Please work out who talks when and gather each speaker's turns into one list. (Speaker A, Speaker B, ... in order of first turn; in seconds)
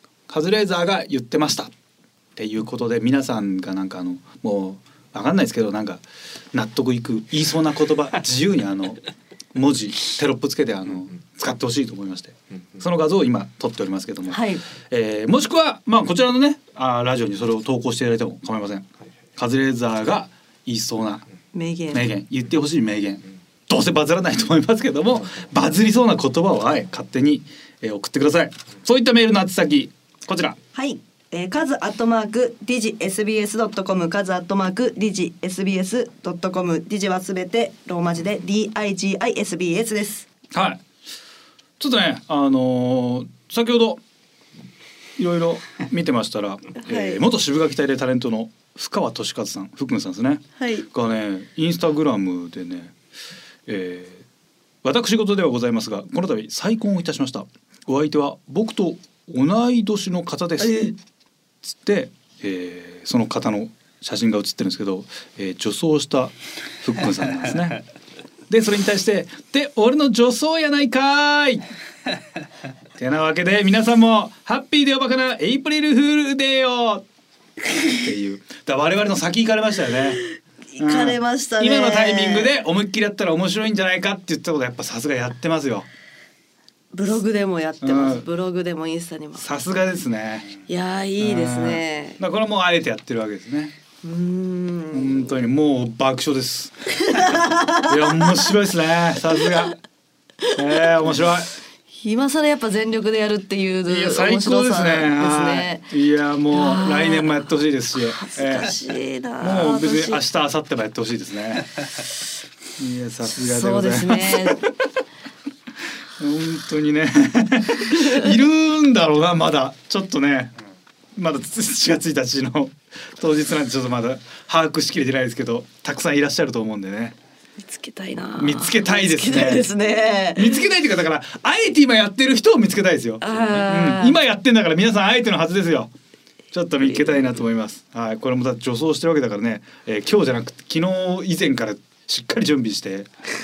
Speaker A: 0.3-1.7, 2.4-9.0, 9.5-21.2, 21.9-30.6, 40.5-40.8, 41.8-44.0, 45.2-52.9, 53.7-54.2, 54.8-60.8, 61.7-67.8, 68.5-71.6, 73.0-77.0, 77.9-80.2, 80.8-85.9, 87.8-88.2, 89.4-90.6, 91.2-93.7, 94.9-96.7, 97.8-99.8, 100.5-101.5, 103.9-108.8, 109.4-111.7, 112.8-114.7, 116.2-120.5, 121.2-127.2, 128.4-129.7, 130.4-135.9, 136.5-143.1
Speaker B: 14.3-14.6, 21.5-22.1, 30.7-40.3, 46.8-47.2, 50.6-50.9, 60.6-61.0, 80.8-82.5, 86.9-89.5, 90.7-92.2, 94.0-95.3, 97.0-98.4, 102.0-105.9, 106.5-107.5, 108.1-110.2, 113.3-114.7, 118.0-118.3, 127.6-130.6, 133.2-134.2